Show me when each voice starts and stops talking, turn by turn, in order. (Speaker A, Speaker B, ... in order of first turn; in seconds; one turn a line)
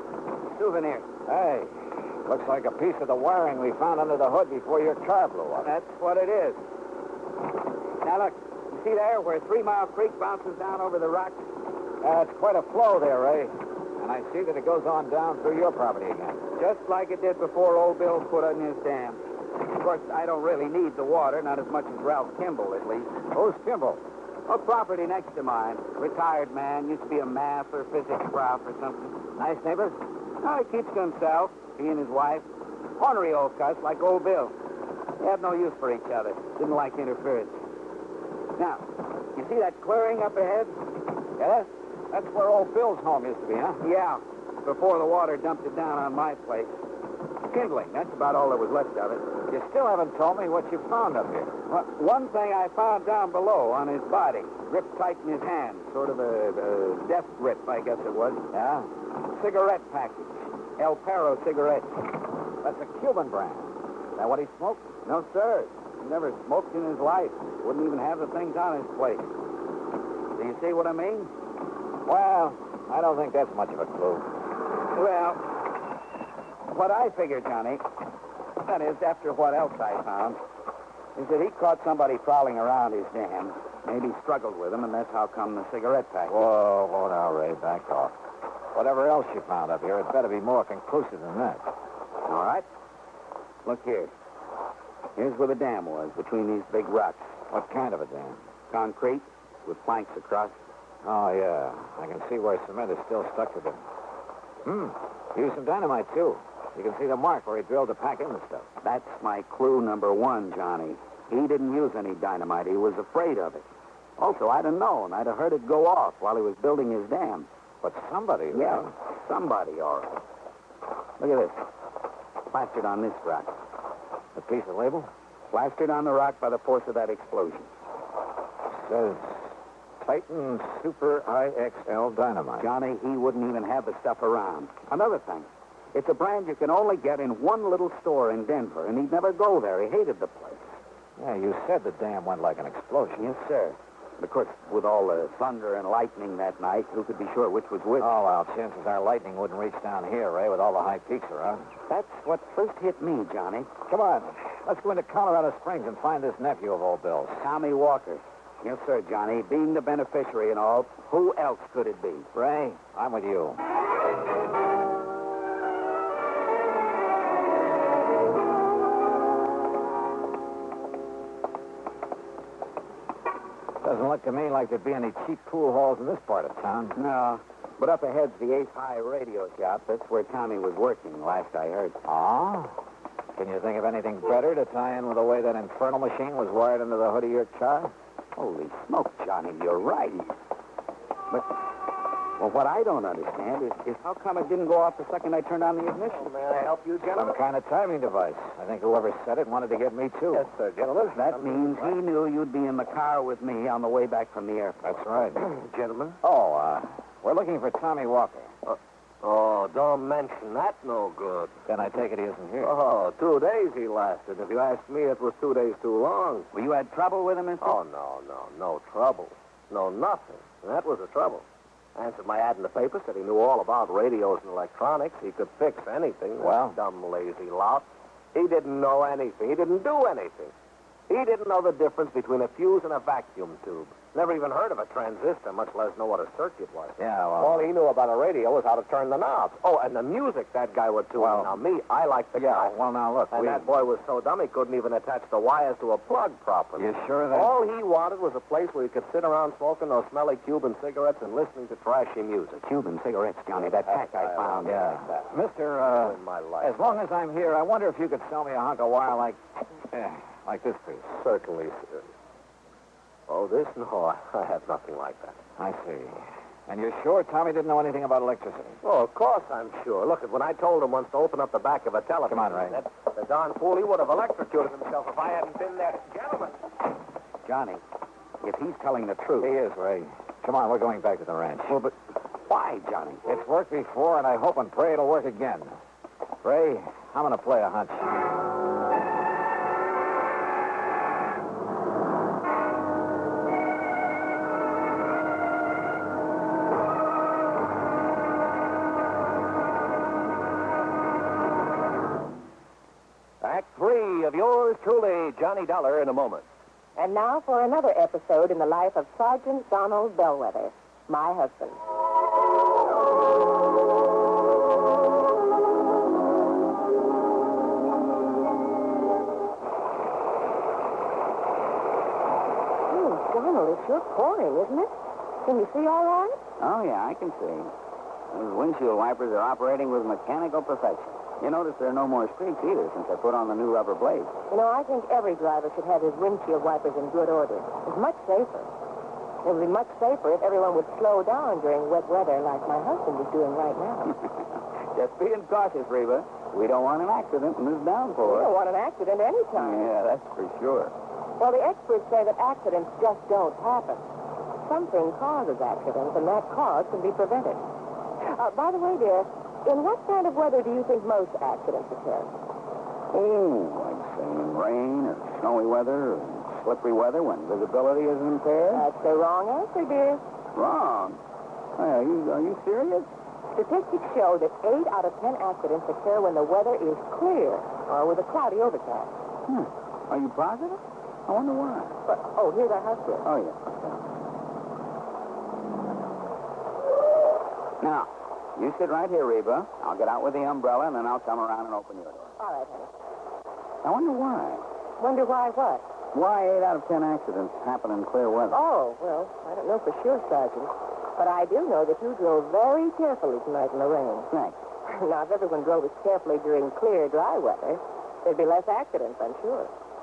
Speaker A: 0.4-1.1
Speaker B: 1.2-5.7
Speaker A: 5.6-6.6
Speaker A: 8.0-11.4
Speaker B: 12.0-16.4
Speaker A: 16.6-23.1
Speaker B: 23.3-24.0
Speaker A: 24.5-29.1
Speaker B: 29.4-30.0
Speaker A: 30.4-32.4
Speaker A: 33.0-34.5
Speaker A: 35.2-37.6
Speaker A: 38.5-40.8
Speaker B: 41.4-43.8
Speaker A: 43.8-46.7
Speaker A: 47.5-49.2
Speaker B: 49.5-51.6
Speaker A: 51.7-58.4
Speaker B: 58.5-58.9
Speaker A: 59.3-62.0
Speaker B: 62.6-64.8
Speaker A: 65.0-69.3
Speaker A: 70.3-71.3
Speaker B: 72.0-74.3
Speaker A: 74.9-75.5
Speaker A: 76.7-77.8
Speaker A: 78.6-80.4
Speaker A: 81.2-86.4
Speaker B: 86.3-88.1
Speaker B: 88.7-91.7
Speaker A: 92.2-92.7
Speaker A: 93.7-94.1
Speaker A: 95.2-97.3
Speaker B: 97.5-98.4
Speaker A: 98.7-100.6
Speaker B: 101.0-103.8
Speaker B: 104.6-108.7
Speaker A: 108.8-113.7
Speaker A: 114.2-117.5
Speaker B: 117.8-118.9
Speaker A: 118.5-120.2
Speaker A: 121.2-121.6
Speaker A: 122.5-123.6
Speaker B: 124.3-125.1
Speaker A: 125.5-127.7
Speaker B: 128.7-129.5
Speaker B: 130.0-132.7
Speaker A: 132.6-140.7
Speaker B: 141.2-143.3
Speaker A: 143.2-148.1
Speaker B: 148.0-151.7
Speaker A: 151.9-153.7
Speaker B: 153.9-157.4
Speaker A: 157.4-162.3
Speaker B: 162.3-163.6
Speaker B: 173.8-177.0
Speaker A: 176.9-182.0
Speaker B: 182.0-182.8
Speaker B: 183.3-187.9
Speaker A: 188.3-190.3
Speaker A: 191.3-191.6
Speaker A: 192.4-196.3
Speaker C: 196.2-197.3
Speaker B: 197.1-200.5
Speaker C: 200.3-201.9
Speaker A: 201.1-204.9
Speaker B: 204.8-205.4
Speaker C: 205.4-206.2
Speaker B: 206.2-208.5
Speaker C: 208.7-211.6
Speaker B: 211.7-212.7
Speaker C: 212.6-216.5
Speaker A: 216.5-217.8
Speaker C: 217.6-221.4
Speaker C: 221.9-230.5
Speaker B: 226.4-226.8
Speaker C: 231.1-242.7
Speaker B: 237.0-237.7
Speaker B: 241.2-241.6
Speaker B: 242.3-243.7
Speaker C: 243.3-252.6
Speaker B: 246.8-247.5
Speaker A: 252.6-254.8
Speaker C: 253.6-256.8
Speaker B: 254.6-261.1
Speaker C: 261.2-262.0
Speaker C: 263.3-265.4
Speaker B: 265.6-268.8
Speaker C: 268.8-276.5
Speaker B: 272.3-272.8
Speaker A: 277.4-277.8
Speaker A: 278.4-279.5
Speaker B: 279.4-281.8
Speaker A: 281.7-281.9
Speaker A: 282.5-283.2
Speaker B: 283.2-285.7
Speaker B: 286.4-288.1
Speaker C: 303.4-306.4
Speaker D: 306.9-311.8
Speaker D: 322.9-326.4
Speaker A: 326.6-327.7
Speaker A: 328.3-334.3
Speaker D: 334.5-338.7
Speaker D: 339.4-344.2
Speaker A: 344.9-348.5
Speaker D: 348.2-349.9
Speaker A: 349.6-350.9
Speaker D: 351.4-354.0
Speaker D: 354.6-357.6
Speaker D: 358.3-362.3
Speaker A: 363.1-368.9
Speaker D: 368.7-370.2
Speaker A: 370.5-371.2
Speaker A: 371.8-373.1
Speaker D: 373.5-379.1
Speaker A: 379.5-382.0
Speaker D: 382.1-383.3
Speaker A: 383.2-384.0
Speaker A: 387.8-392.3
Speaker D: 392.4-392.9
Speaker A: 393.8-394.6
Speaker D: 395.0-395.8
Speaker A: 396.1-398.6
Speaker D: 398.5-404.3
Speaker A: 404.3-404.6
Speaker D: 404.9-409.7